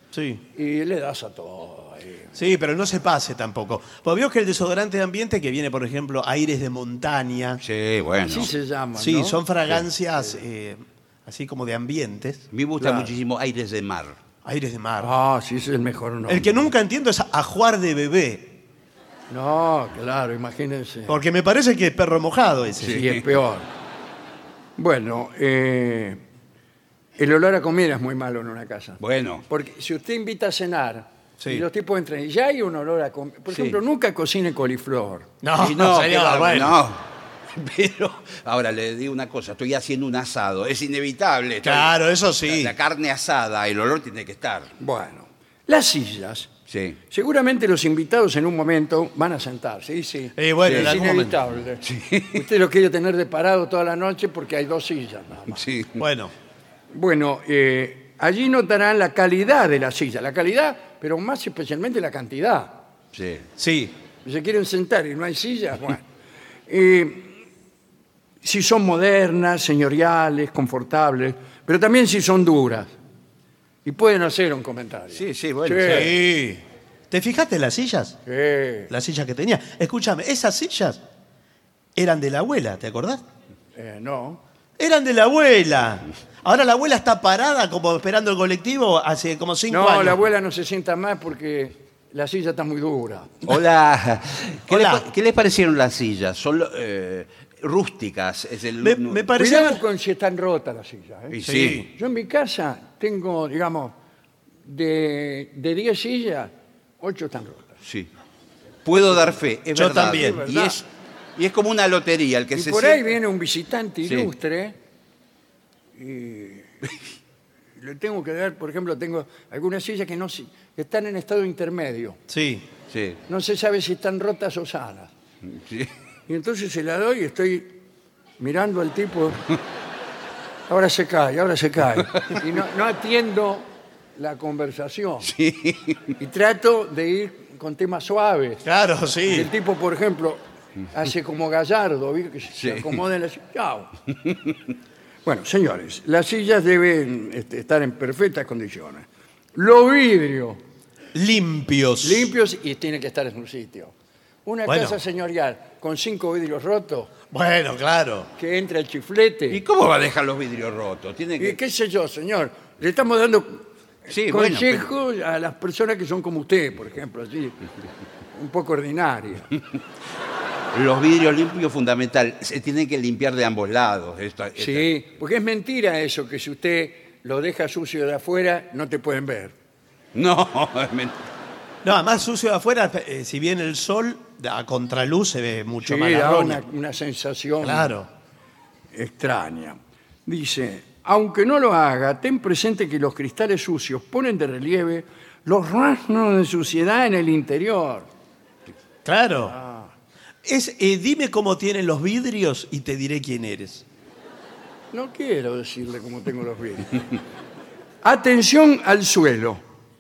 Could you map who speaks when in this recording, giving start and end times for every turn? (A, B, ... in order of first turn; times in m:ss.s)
0:00.1-0:00.4 A
0:00.5-0:02.4 B
0:02.3-0:07.6 A
0:07.6-0:08.5 C
0:08.3-0:09.4 B
0:09.0-0:12.4 A
0:12.5-0:14.2 C
0:12.8-0:13.1 B
0:14.4-0:15.1 A
0:15.0-0:16.4 B
0:16.3-0:18.6 A
0:19.3-0:21.2 B
0:21.1-0:23.0 A
0:22.8-0:23.2 C
0:22.8-0:23.7 B
0:24.8-0:26.2 B
0:27.2-0:35.3 B
0:29.0-0:29.4 C
0:31.4-0:31.6 A
0:35.4-0:36.8 A
0:35.6-0:41.9 C
0:41.6-0:42.7 A
0:42.4-0:44.7 C
0:44.8-0:46.5 B
0:46.7-0:47.0 C
0:47.1-0:55.6 B
0:50.4-0:51.4 A
0:50.6-0:51.0 C
0:51.8-0:52.4 C
0:55.5-0:56.0 C
0:56.0-0:56.3 A
0:56.9-1:02.8 B
1:03.1-1:03.5 C
1:03.6-1:03.9 A
1:04.2-1:06.0 B
1:06.7-1:07.4 B
1:08.4-1:12.9 B
1:13.8-1:16.1 B
1:15.1-1:16.1 C
1:15.8-1:18.2 A
1:18.2-1:18.9 B
1:18.9-1:21.0 A
1:22.0-1:23.2 A
1:23.7-1:24.4 B
1:24.8-1:30.2 A
1:29.7-1:33.4 B
1:33.5-1:39.3 C
1:34.7-1:35.0 A
1:38.8-1:39.8 A
1:39.4-1:43.9 B
1:41.3-1:41.9 C
1:41.4-1:41.9 A
1:44.6-1:47.8 B
1:47.8-1:48.1 C
1:48.8-1:53.1 C
1:49.7-1:50.5 A
1:50.0-1:50.8 B
1:52.5-1:54.8 B
1:54.0-1:54.3 C
1:56.0-1:56.8 B
1:57.8-2:02.2 B
2:02.3-2:02.7 A
2:02.9-2:03.2 C
2:03.3-2:05.1 B
2:05.5-2:05.9 C
2:06.3-2:07.8 B
2:08.4-2:09.4 B
2:10.7-2:15.3 B
2:15.2-2:16.1 C
2:16.2-2:18.6 B
2:18.6-2:19.5 A
2:19.2-2:23.9 B
2:22.6-2:23.0 C
2:25.2-2:30.6 B
2:31.1-2:32.3 A
2:32.0-2:33.9 B
2:34.4-2:37.1 B
2:34.7-2:35.0 A
2:37.3-2:38.3 A
2:38.4-2:39.6 B
2:39.5-2:41.6 C
2:41.4-2:47.6 B
2:44.1-2:44.9 C
2:48.3-2:49.5 B
2:50.7-2:54.9 C
2:54.6-2:59.5 B
3:00.1-3:01.2 C
3:01.8-3:06.6 A
3:05.8-3:07.9 B
3:07.6-3:08.1 A
3:08.9-3:18.1 B
3:19.0-3:19.6 A
3:19.5-3:19.9 B
3:20.4-3:23.8 A
3:24.9-3:27.0 B
3:28.0-3:29.6 B